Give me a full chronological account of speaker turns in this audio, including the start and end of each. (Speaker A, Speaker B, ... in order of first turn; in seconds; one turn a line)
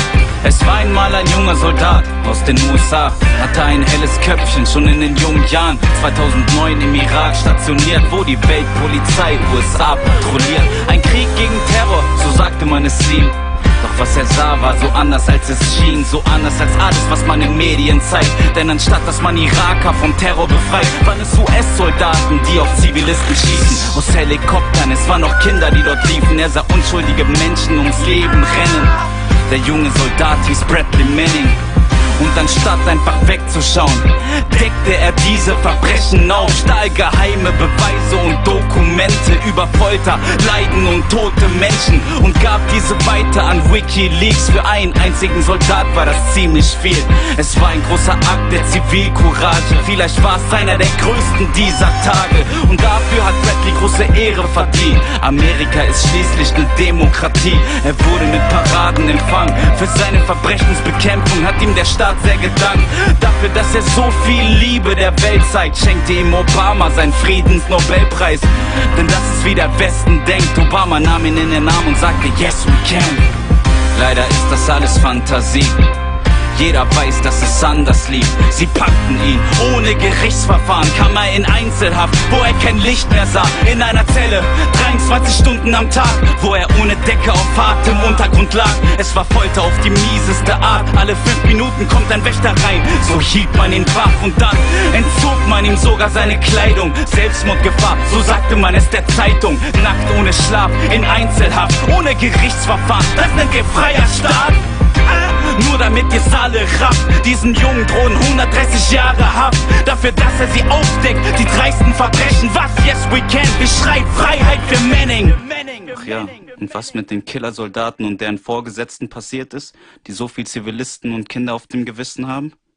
Speaker A: 0.4-31.6
Speaker A: 32.1-73.2
Speaker A: 73.9-75.9
Speaker A: 76.5-122.5